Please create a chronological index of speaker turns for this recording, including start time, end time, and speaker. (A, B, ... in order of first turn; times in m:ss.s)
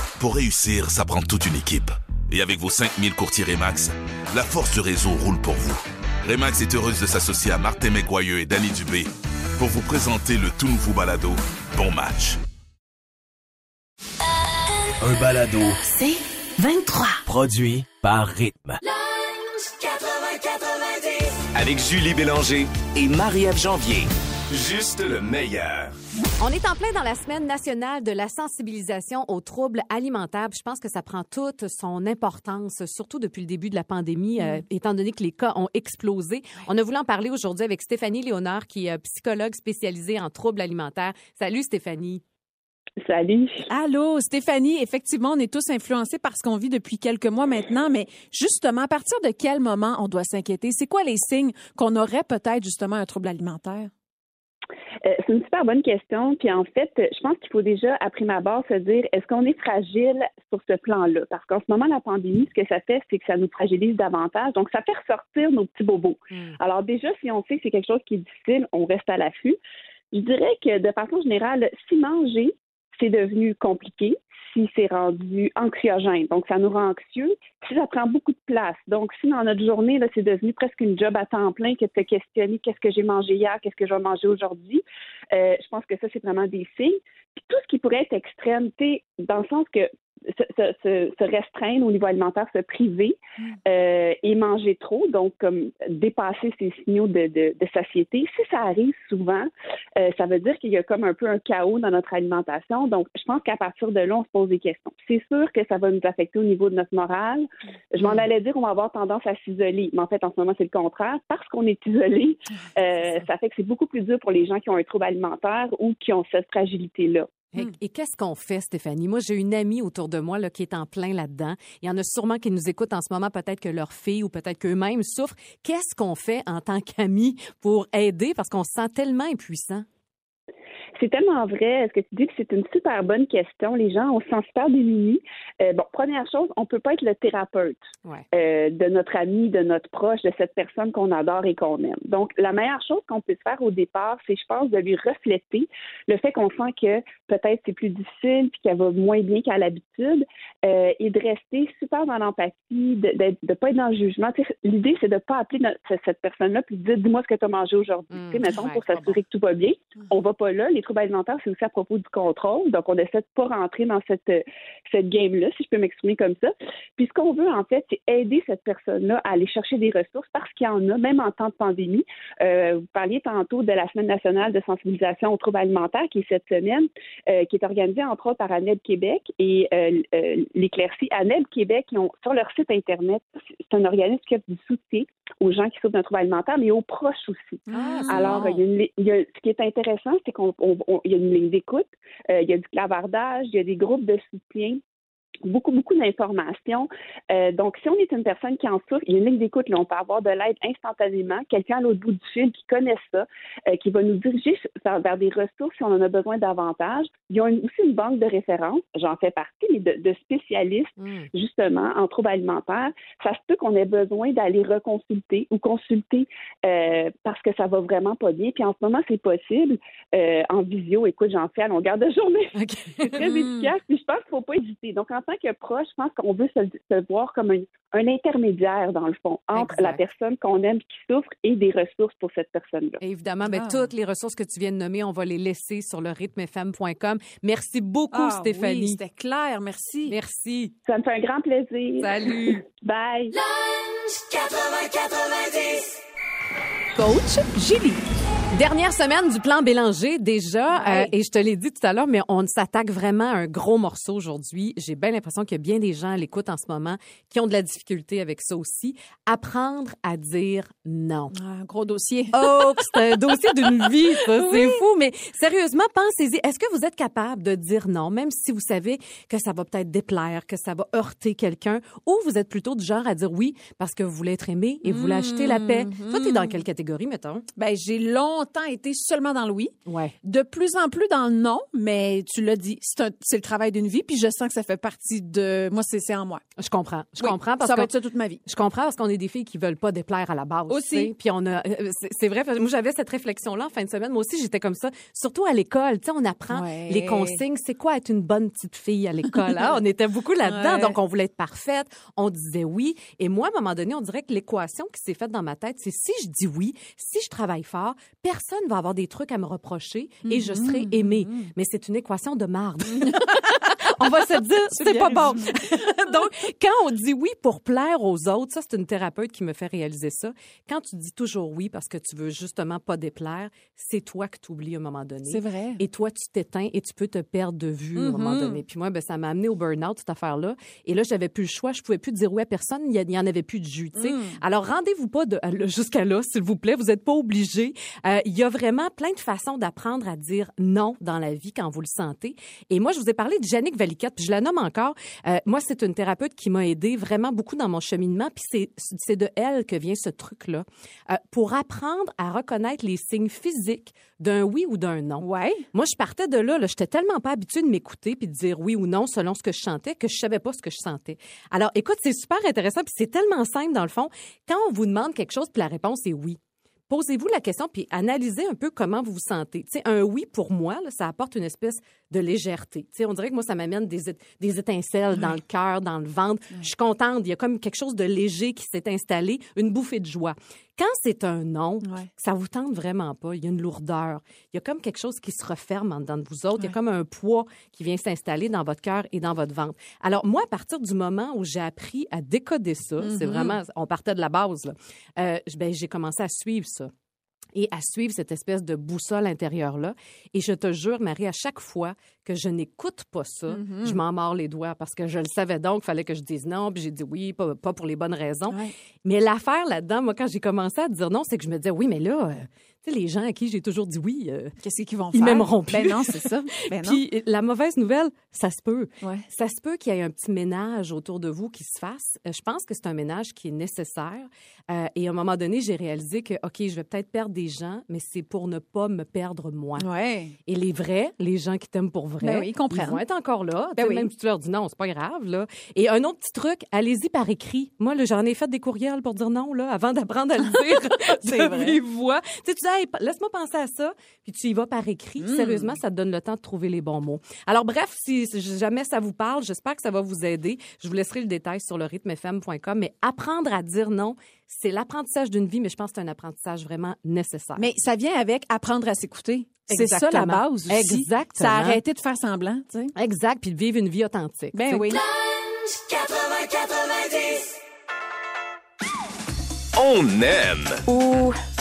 0:00.2-0:12.4 A
0:15.0-0:15.8 B
0:15.9-0:17.2 C
0:17.2-0:18.8 B
0:19.5-0:21.2 C
0:21.3-0:26.0 B
0:26.4-0:42.2 D
0:43.0-0:43.6 E
0:43.7-0:53.9 F
0:55.0-1:09.6 E
1:06.3-1:06.6 D
1:10.1-1:57.3 E
1:48.0-1:48.3 D
1:57.5-2:09.8 D
2:11.0-2:17.8 E
2:18.3-3:14.8 E
2:38.1-2:39.2 D
3:07.7-3:08.4 F
3:07.7-3:08.6 D
3:15.4-3:53.0 E
3:31.0-3:31.3 D
3:42.5-3:43.2 D
3:43.2-3:43.7 F
3:49.5-3:50.0 D
3:53.0-3:59.0 D
3:53.4-3:53.8 F
3:58.1-4:00.2 F
4:00.1-4:00.7 D
4:00.8-4:03.4 E
4:02.0-4:02.6 D
4:04.4-4:05.8 C
4:06.9-4:08.0 F
4:08.5-4:21.3 D
4:10.7-4:11.1 F
4:21.3-4:23.0 F
4:22.3-4:37.4 D
4:23.9-4:24.8 F
4:34.8-4:36.6 F
4:37.6-4:46.4 F
4:39.8-4:40.1 D
4:46.6-4:47.9 D
4:47.2-4:48.4 F
4:48.4-6:36.9 D
4:50.7-4:51.1 F
4:56.5-4:57.4 F
5:00.4-5:01.0 F
5:10.2-5:11.5 F
5:13.0-5:13.7 F
5:14.7-5:15.6 F
5:25.3-5:25.8 F
5:28.0-5:28.6 F
5:34.0-5:34.4 F
5:55.2-5:55.6 F
6:33.0-6:33.6 F
6:37.5-6:54.6 D
6:43.5-6:44.0 F
6:54.6-6:57.0 F
6:55.1-7:09.9 D
7:09.8-7:10.4 F
7:10.4-7:37.6 D
7:12.2-7:13.0 F
7:13.8-7:14.1 F
7:21.0-7:21.8 F
7:25.2-7:25.7 F
7:37.6-7:42.9 F
7:39.7-7:41.8 D
7:42.9-7:45.0 D
7:44.5-7:45.0 F
7:49.7-7:50.8 B
7:50.9-7:51.3 D